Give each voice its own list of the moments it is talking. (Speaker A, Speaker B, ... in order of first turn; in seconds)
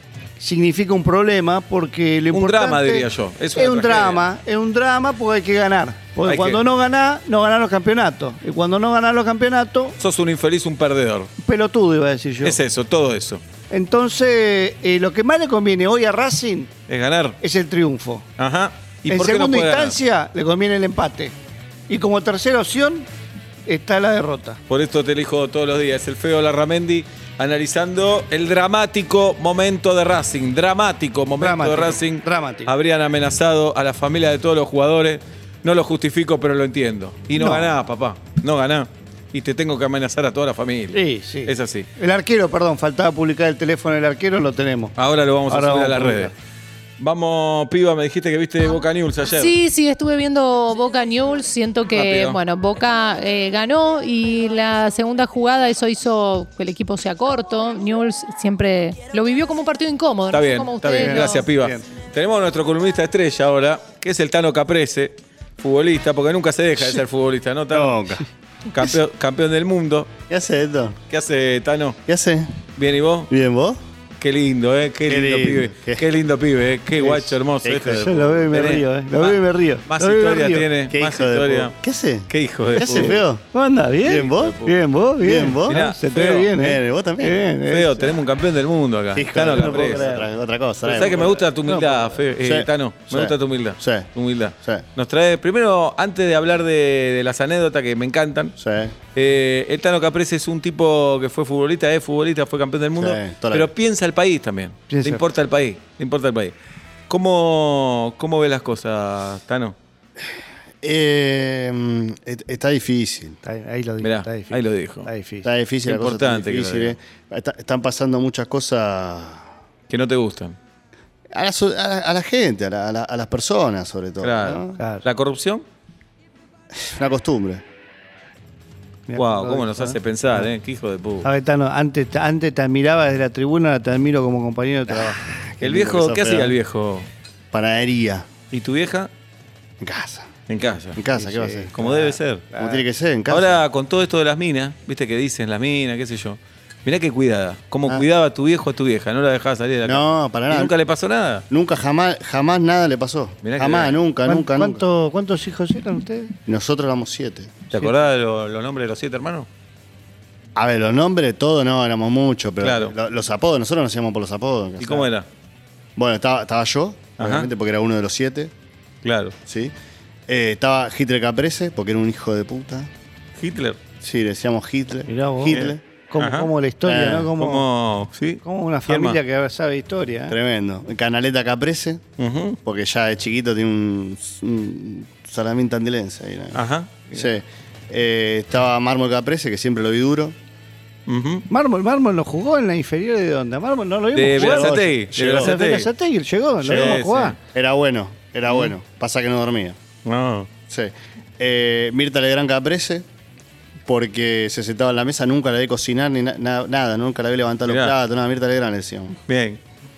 Speaker A: 0.4-9.9, 11.4-12.6, 13.7-16.7, 17.4-18.2, 19.1-21.3, 21.9-23.1, 23.7-24.6, 31.4-32.7, 37.3-37.8, 40.9-44.9, 45.5-46.3, 61.0-61.8, 77.9-80.7, 82.8-88.2, 89.5-90.2, 91.6-92.2, 104.9-105.3, 113.4-115.5, 129.1-130.5, 131.2-135.2, 141.2-142.8, 154.3-156.3, 175.1-177.6, 178.4-180.3, 191.5-197.4
Speaker B: 2.3-4.2, 6.2-6.6, 10.0-11.3, 12.4-13.4, 16.9-17.4, 18.4-20.0, 24.7-41.9, 45.0-46.3, 47.0-49.5, 51.9-52.4, 60.3-68.0, 68.7-70.1, 71.1-72.0, 72.8-73.3, 74.2-81.7, 82.3-83.2, 84.2-84.8, 85.7-86.5, 87.6-90.2, 90.8-98.5, 99.1-106.5, 107.1-109.8, 114.0-115.1, 115.8-117.0, 119.9-120.6, 124.2-125.6, 129.1-131.3, 135.6-137.1, 138.5-139.1, 140.5-141.0, 141.7-142.4, 143.3-151.4, 153.4-153.9, 157.7-159.5, 162.6-162.9, 164.8-165.2, 167.2-167.5, 169.0-169.3, 173.4-173.8, 175.5-176.5, 177.3-179.2, 182.2-182.6, 186.5-187.0, 191.1-191.4, 194.1-195.9, 196.6-197.4, 200.0-200.5, 207.7-207.9, 209.3-209.6
Speaker C: 49.3-61.5
Speaker D: 67.7-68.2, 70.3-71.0, 72.0-72.6, 73.3-73.8, 75.1-76.1, 77.6-78.3, 80.9-83.4, 84.0-84.6, 85.2-85.8, 86.5-87.4, 89.1-91.5, 92.4-94.1, 98.6-99.0, 103.0-103.7, 110.8-113.4, 115.4-119.5, 121.3-124.8, 126.7-127.6, 134.9-136.6, 137.5-138.3, 139.8-140.3, 140.9-141.7, 142.6-143.6, 149.8-150.7, 151.5-154.8, 156.4-157.6, 160.6-165.1, 166.0-168.5, 169.5-169.7, 170.3-172.9, 174.0-175.8, 176.8-177.3, 180.3-182.0, 182.6-190.3, 194.3-195.6, 196.7-197.0, 197.5-199.8, 200.7-203.0, 203.8-209.2